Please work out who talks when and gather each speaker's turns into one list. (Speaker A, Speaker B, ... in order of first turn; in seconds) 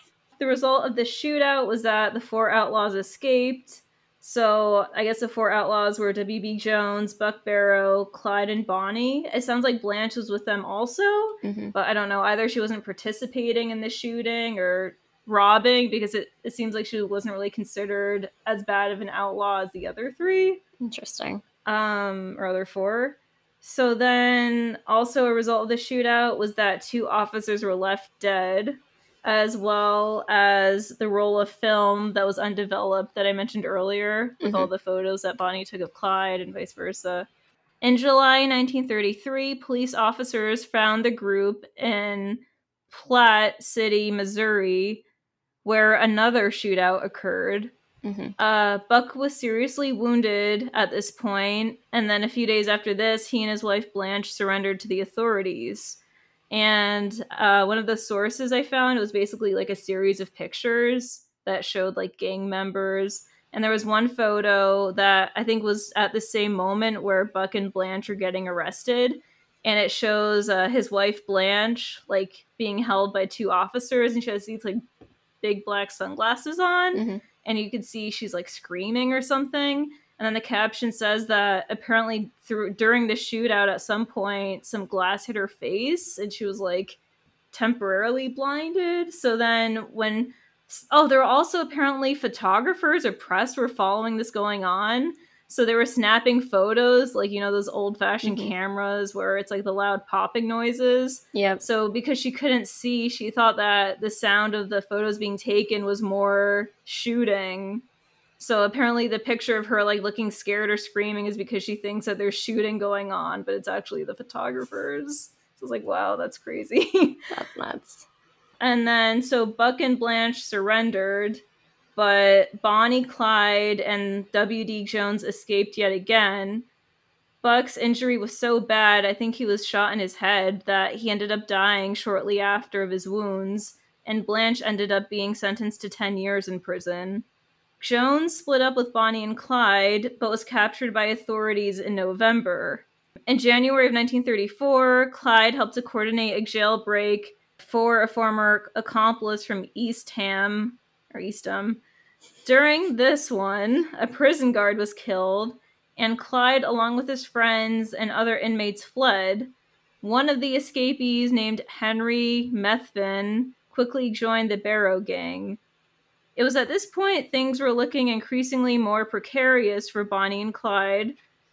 Speaker A: 0.4-20.6, 21.6-37.3, 37.8-45.0, 45.6-47.7, 48.4-56.0, 56.5-74.8, 75.4-87.0, 87.5-107.8, 108.4-117.3, 118.6-121.4, 122.0-126.6, 127.4-137.2, 137.8-151.8, 152.4-165.6, 166.3-171.2
Speaker B: 11.4-11.7, 20.8-21.4, 34.4-34.7, 48.0-48.3, 76.9-77.2, 98.2-98.5, 101.3-101.6, 117.3-118.0